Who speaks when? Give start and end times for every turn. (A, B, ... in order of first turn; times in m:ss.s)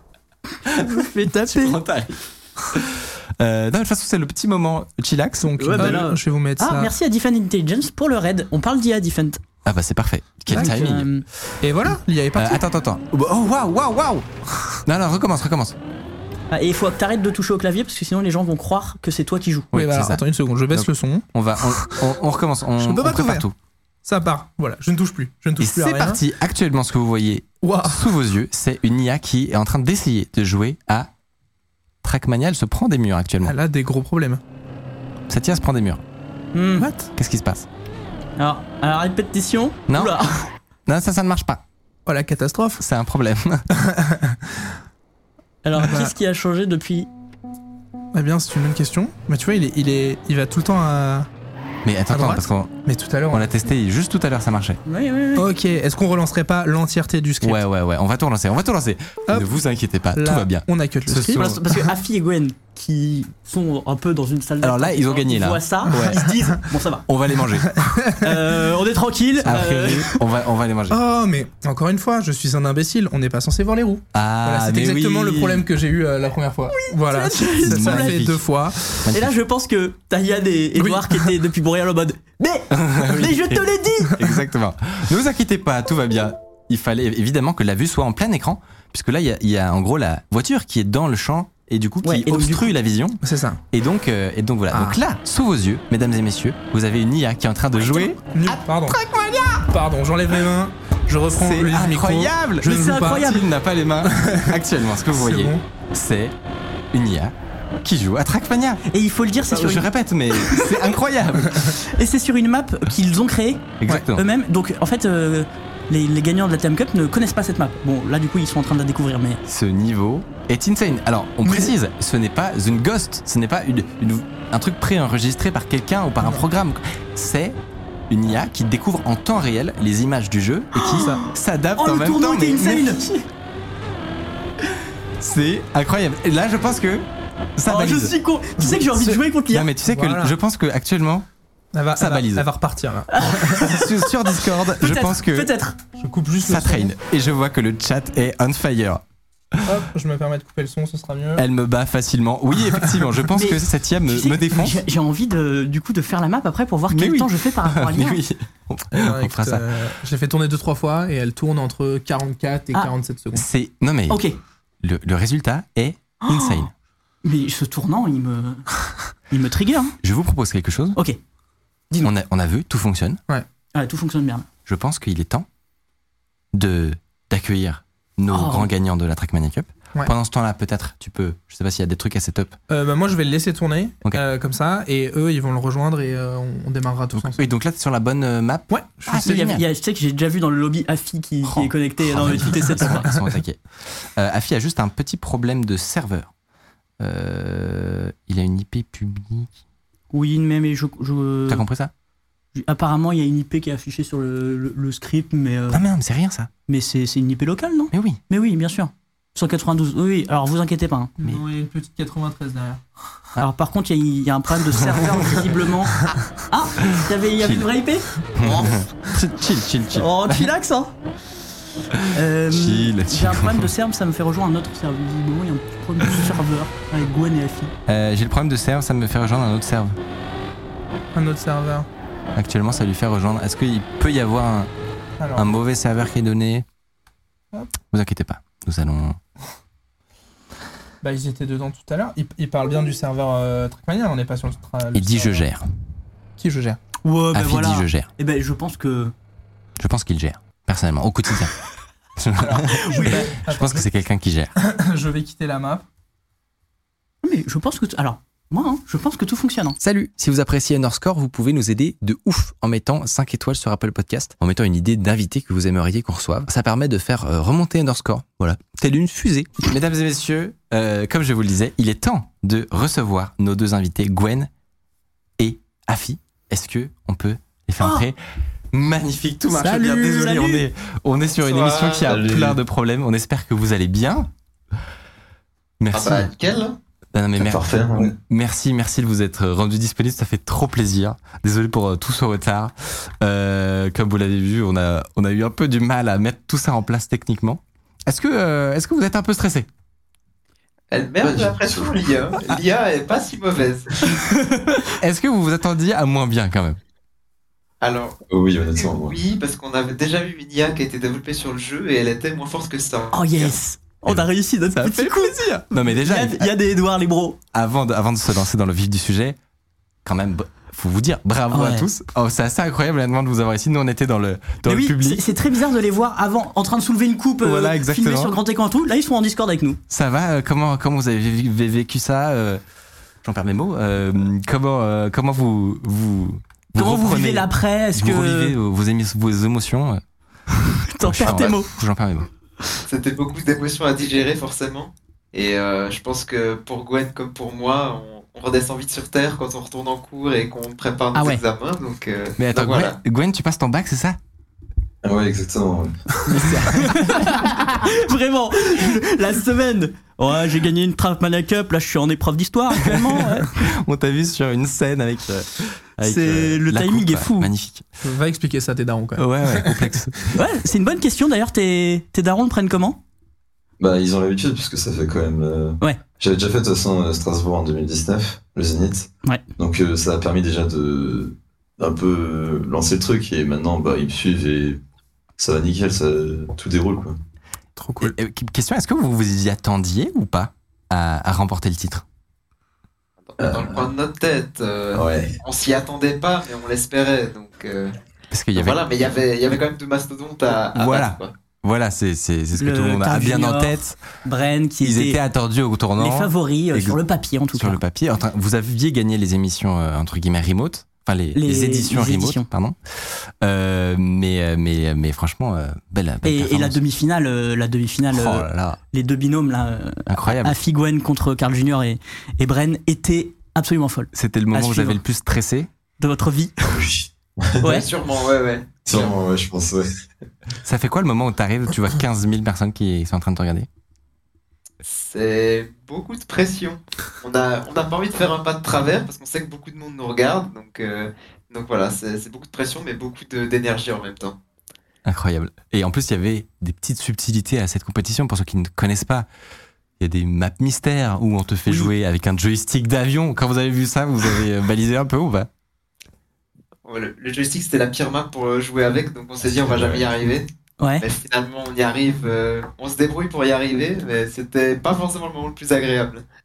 0:00.7-0:02.2 A
0:00.8-0:01.8 B
0:02.7-0:06.0 A
0:05.4-0:06.9 C
0:05.6-0:09.4 B
0:09.6-0:11.1 A
0:10.5-0:10.8 C
0:10.5-0:11.2 B
0:11.6-0:12.6 C
0:12.4-0:14.3 A
0:14.8-0:15.8 A
0:16.5-0:19.7 B
0:19.7-0:23.5 A
0:19.7-0:22.0 C
0:22.8-0:23.5 C
0:24.0-0:26.2 C
0:25.6-0:31.1 A
0:27.6-0:28.1 C
0:32.0-0:33.5 A
0:33.4-0:34.4 C
0:35.3-0:36.0 A
0:36.5-0:36.9 B
0:36.8-0:37.1 C
0:37.2-0:37.7 A
0:38.4-0:40.5 B
0:39.9-0:40.2 A
0:40.8-0:41.6 A
0:42.0-0:42.8 C
0:42.8-0:43.6 A
0:43.7-0:44.6 C
0:45.6-0:47.1 B
0:45.8-0:46.1 C
0:48.1-0:51.3 C
0:51.8-0:52.8 A
0:52.1-0:53.5 C
0:53.3-0:54.8 A
0:54.8-0:55.5 B
0:55.4-0:57.6 C
0:57.4-1:01.6 A
0:59.3-0:59.5 C
1:00.1-1:01.5 C
1:01.3-1:07.0 B
1:04.6-1:06.3 A
1:07.1-1:07.9 A
1:07.8-1:08.2 C
1:08.2-1:10.2 B
1:09.4-1:11.0 A
1:10.9-1:19.0 C
1:14.1-1:15.6 A
1:16.7-1:18.2 B
1:17.6-1:18.4 A
1:19.0-1:19.3 A
1:19.1-1:24.2 B
1:20.8-1:21.3 C
1:22.7-1:33.2 A
1:32.0-1:32.7 B
1:33.2-1:33.6 C
1:33.7-1:39.6 A
1:34.7-1:35.0 C
1:37.8-1:38.1 B
1:38.3-1:39.0 C
1:39.6-1:43.3 C
1:41.3-1:46.3 A
1:42.6-1:43.4 B
1:44.0-1:44.5 C
1:45.1-1:45.6 C
1:46.9-1:48.8 A
1:48.9-1:50.8 B
1:49.5-1:51.7 A
1:51.7-1:59.4 B
1:53.8-1:54.2 A
1:59.4-2:13.0 A
2:10.7-2:13.2 B
2:15.2-2:18.1 A
2:17.7-2:19.7 B
2:18.6-2:19.2 C
2:19.5-2:21.3 A
2:19.8-2:20.3 C
2:21.7-2:23.4 C
2:22.0-2:22.4 A
2:23.1-2:24.1 B
2:23.5-2:25.5 A
2:24.7-2:25.8 B
2:26.0-2:26.9 C
2:26.4-2:29.0 A
2:29.6-2:31.4 C
2:31.4-2:34.8 A
2:33.3-2:38.2 B
2:36.9-2:39.6 A
2:38.9-2:43.4 C
2:43.3-2:44.2 A
2:44.1-2:44.4 B
2:44.8-2:46.7 A
2:46.2-2:46.6 B
2:47.2-2:48.7 B
2:49.3-2:50.0 B
2:50.0-2:51.0 A
2:52.0-2:53.2 A
2:53.7-2:54.4 B
2:54.6-2:55.5 A
2:56.5-3:02.6 A
2:58.3-2:58.7 B
3:02.7-3:07.4 C
3:07.2-3:09.6 A
3:08.7-3:09.3 C
3:09.1-3:13.1 B
3:11.4-3:16.3 A
3:17.0-3:19.5 A
3:20.1-3:21.6 B
3:21.5-3:21.9 A
3:22.5-3:25.8 B
3:25.7-3:26.5 A
3:26.7-3:31.1 B
3:27.9-3:28.2 A
3:31.2-3:32.8 C
3:33.4-3:38.7 B
3:37.4-3:37.7 A
3:38.4-3:40.5 A
3:39.9-3:40.9 B
3:42.1-3:47.7 B
3:42.5-3:43.7 A
3:47.9-3:50.0 A
3:51.1-3:51.9 C
3:52.3-3:54.7 A
3:55.2-3:55.5 C
3:55.4-3:56.6 A
3:57.9-3:59.2 A
4:01.0-4:05.4 C
4:04.9-4:05.6 A
4:06.4-4:06.8 C
4:07.0-4:09.1 B
4:07.3-4:08.1 A
4:09.8-4:11.5 A
4:12.2-4:14.5 A
4:12.4-4:13.8 C
4:12.7-4:13.3 B
4:14.6-4:15.8 C
4:17.2-4:19.8 B
4:19.8-4:34.5 A
4:35.4-4:38.2 A
4:37.8-4:38.0 B
4:38.7-4:44.3 A
4:39.5-4:40.6 B
4:41.4-4:42.2 D
4:42.0-4:42.6 E
4:45.8-4:46.3 A
4:45.9-4:46.8 D
4:47.1-4:59.7 A
4:47.4-4:48.1 E
5:00.9-5:04.2 D
5:01.2-5:02.1 E
5:04.3-5:04.8 B
5:05.0-5:06.8 A
5:07.8-5:08.2 D
5:08.3-5:09.2 E
5:08.7-5:13.6 D
5:13.1-5:17.4 B
5:14.0-5:16.5 A
5:17.5-5:19.4 A
5:20.0-5:25.2 A
5:21.5-5:21.9 B
5:24.6-5:29.8 B
5:27.4-5:28.3 A
5:29.9-5:32.6 A
5:33.2-5:40.0 A
5:36.8-5:38.5 B
5:40.9-5:41.7 B
5:41.0-5:42.3 A
5:42.9-5:53.0 D
5:51.1-5:51.4 B
5:52.4-5:54.2 A
5:55.0-5:56.0 E
5:56.3-5:57.5 A
5:56.7-6:03.5 B
6:02.8-6:07.9 A
6:06.0-6:07.5 B
6:08.0-6:09.8 C
6:09.2-6:10.2 A
6:10.3-6:13.0 B
6:13.8-6:24.8 E
6:25.4-6:27.2 E
6:27.8-6:28.1 C
6:28.0-6:32.0 A
6:33.3-6:37.9 D
6:33.4-6:33.9 E
6:34.9-6:35.4 E
6:38.3-6:38.8 A
6:38.5-6:41.3 D
6:40.7-6:44.0 A
6:42.6-6:45.2 B
6:44.8-6:47.0 A
6:46.0-6:47.8 B
6:47.5-6:56.8 A
6:51.3-6:52.5 B
6:56.2-7:05.0 B
6:58.1-6:58.8 A
7:00.1-7:00.6 A
7:04.1-7:05.7 A
7:06.0-7:06.7 B
7:06.6-7:07.6 E
7:07.6-7:07.9 B
7:07.6-7:09.1 D
7:08.8-7:09.9 E
7:10.6-7:13.7 A
7:14.8-7:24.4 D
7:25.0-7:29.3 A
7:30.0-7:35.5 A
7:36.8-7:40.5 D
7:39.4-7:40.3 E
7:40.8-7:41.0 B
7:41.0-7:46.2 D